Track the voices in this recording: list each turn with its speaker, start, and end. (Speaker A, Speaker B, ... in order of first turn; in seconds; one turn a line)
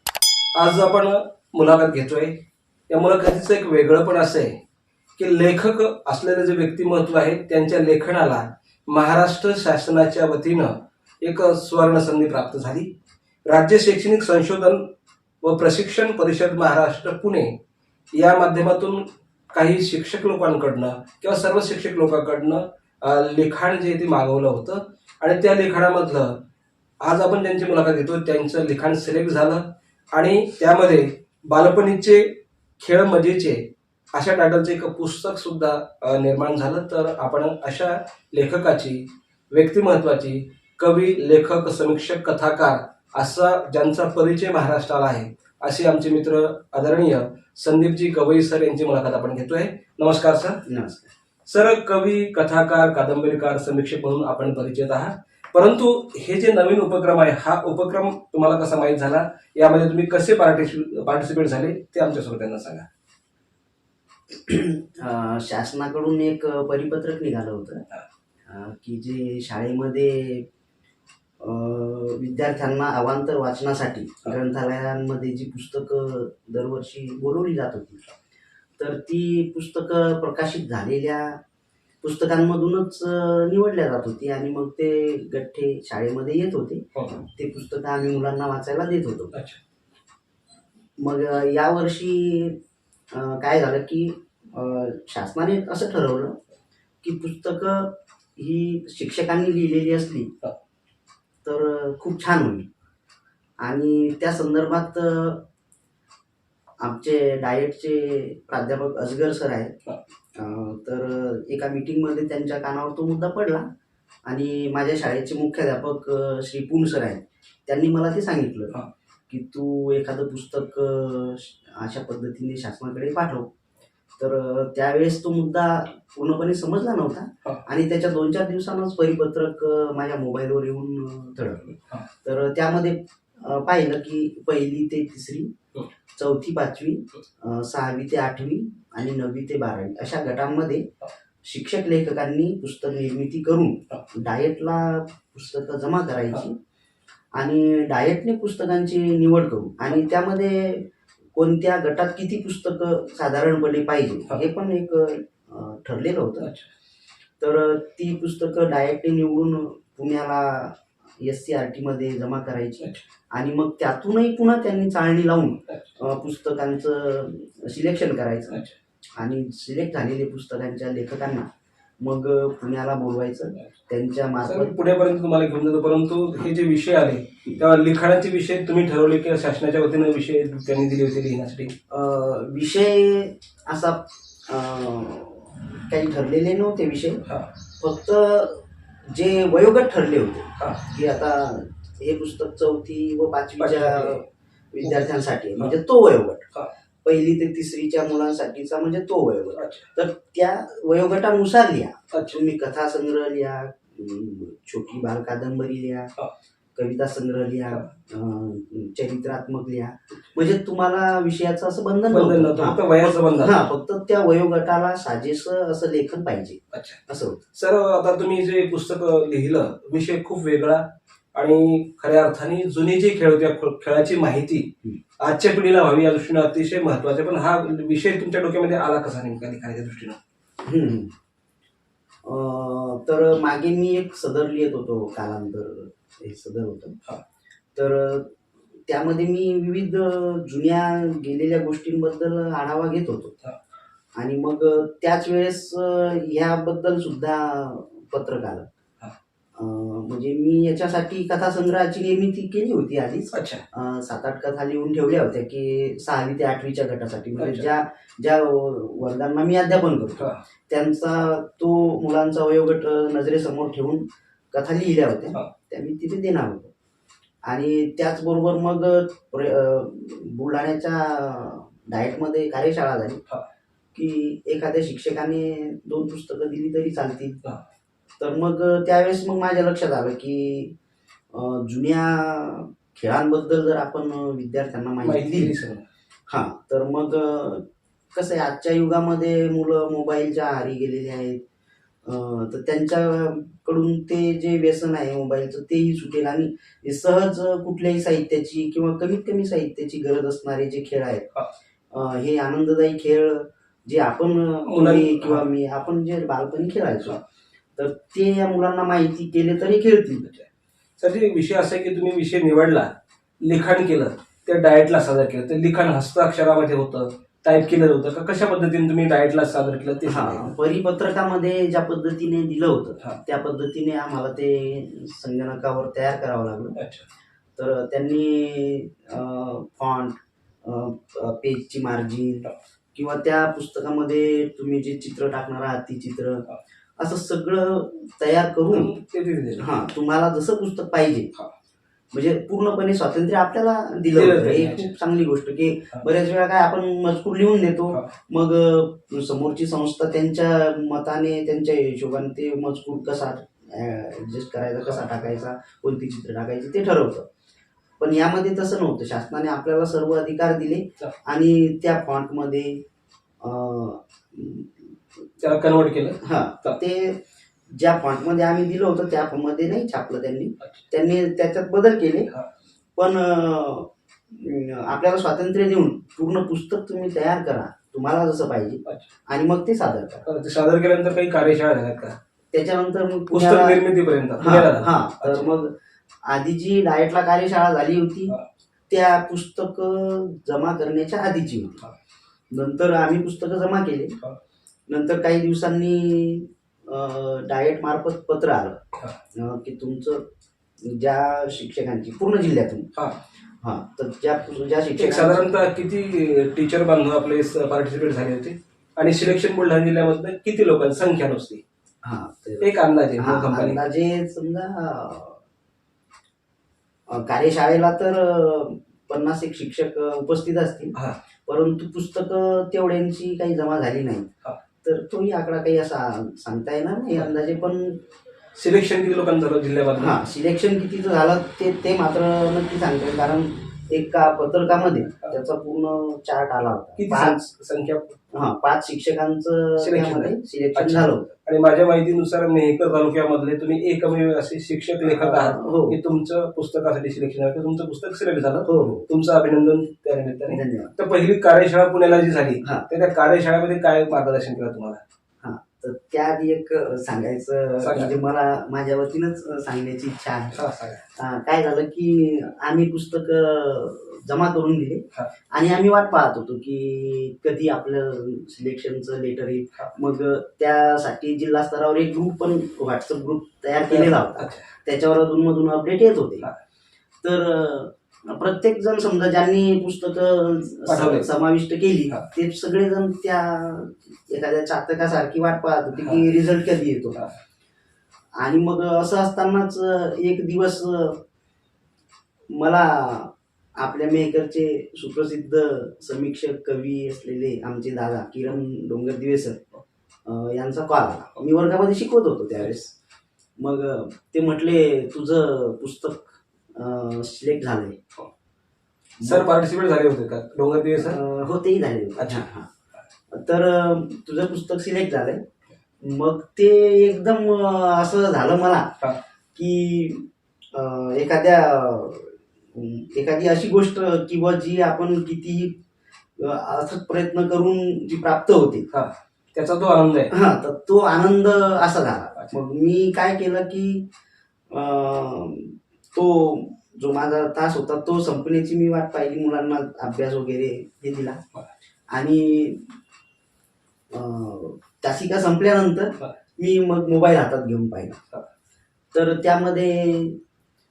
Speaker A: 0.5-4.6
Speaker A: 5.2-12.9
Speaker A: 13.5-14.9
Speaker A: 15.4-17.6
Speaker A: 18.1-26.4
Speaker A: 27.0-50.6
Speaker B: 50.7-51.1
Speaker A: 51.5-62.9
Speaker B: 64.3-67.9
Speaker B: 68.5-70.5
Speaker B: 71.4-78.0
Speaker B: 78.8-81.4
Speaker B: 82.0-89.3
Speaker A: 89.3-89.6
Speaker B: 91.0-92.6
Speaker B: 93.1-96.4
Speaker B: 97.0-100.3
Speaker B: 101.5-102.7
Speaker B: 103.6-105.5
Speaker B: 106.8-109.8
Speaker B: 110.3-113.7
Speaker B: 114.3-118.8
Speaker B: 119.3-123.5
Speaker B: 124.2-135.5
Speaker B: 136.2-140.9
Speaker B: 141.4-146.6
Speaker B: 147.3-156.5
Speaker A: 156.4-156.7
Speaker B: 157.4-168.6
Speaker A: 165.7-166.0
Speaker B: 169.2-171.5
Speaker B: 172.0-174.8
Speaker A: 174.4-181.7
Speaker B: 181.9-187.2
Speaker B: 187.8-196.5
Speaker A: 193.6-194.2
Speaker B: 197.0-206.1
Speaker A: 199.6-199.9
Speaker A: 202.1-202.4
Speaker B: 206.8-217.4
Speaker A: 212.1-213.6
Speaker A: 216.7-217.0
Speaker A: 217.5-230.2
Speaker B: 230.7-231.1
Speaker B: 232.2-237.0
Speaker B: 237.8-238.3
Speaker B: 238.9-243.3
Speaker B: 244.2-248.7
Speaker B: 249.6-266.7
Speaker A: 253.3-253.6
Speaker A: 257.4-257.6
Speaker B: 267.4-273.2
Speaker B: 273.9-277.4
Speaker B: 278.2-280.7
Speaker B: 281.3-285.6
Speaker A: 285.0-285.9
Speaker B: 286.3-291.4
Speaker B: 292.1-301.3
Speaker B: 301.9-307.2
Speaker A: 304.6-305.5
Speaker B: 307.8-310.3
Speaker A: 311.0-312.9
Speaker A: 313.4-320.5
Speaker B: 320.1-326.8
Speaker A: 326.8-327.0
Speaker B: 327.6-336.4
Speaker B: 337.0-338.9
Speaker A: 338.7-339.7
Speaker B: 339.6-341.4
Speaker B: 342.1-357.2
Speaker A: 344.1-344.9
Speaker B: 358.0-362.8
Speaker B: 363.4-364.7
Speaker A: 365.4-366.8
Speaker B: 366.2-372.3
Speaker B: 373.0-380.3
Speaker A: 380.2-382.2
Speaker B: 382.5-383.8
Speaker A: 383.3-385.5
Speaker B: 384.4-385.7
Speaker B: 386.2-388.4
Speaker B: 388.9-391.8
Speaker B: 392.5-394.2
Speaker B: 394.9-398.8
Speaker B: 399.3-400.2
Speaker B: 400.8-402.9
Speaker B: 403.6-405.5
Speaker A: 405.0-411.6
Speaker B: 412.0-415.4
Speaker A: 412.6-413.8
Speaker B: 417.1-420.9
Speaker B: 421.5-424.3
Speaker B: 424.8-428.0
Speaker A: 428.6-430.2
Speaker B: 430.0-437.4
Speaker A: 437.0-438.2
Speaker B: 438.3-441.3
Speaker A: 439.8-455.0
Speaker B: 445.0-446.0
Speaker B: 448.7-449.1
Speaker B: 450.5-450.9
Speaker B: 455.4-460.6
Speaker A: 457.8-458.1
Speaker A: 460.5-461.0
Speaker B: 461.2-476.5
Speaker A: 473.9-474.7
Speaker B: 477.2-487.3
Speaker A: 480.9-481.3
Speaker B: 488.4-491.2
Speaker B: 492.5-499.6
Speaker B: 500.2-502.9
Speaker B: 503.6-508.0
Speaker B: 509.2-509.5
Speaker A: 509.2-511.2
Speaker B: 511.0-512.7
Speaker A: 512.2-512.4
Speaker B: 513.3-515.4
Speaker B: 516.0-519.0
Speaker B: 519.5-525.8
Speaker B: 526.4-528.9
Speaker A: 528.9-530.4
Speaker B: 530.3-534.1
Speaker B: 534.7-541.4
Speaker B: 542.1-542.9
Speaker B: 544.1-548.2
Speaker B: 549.1-550.4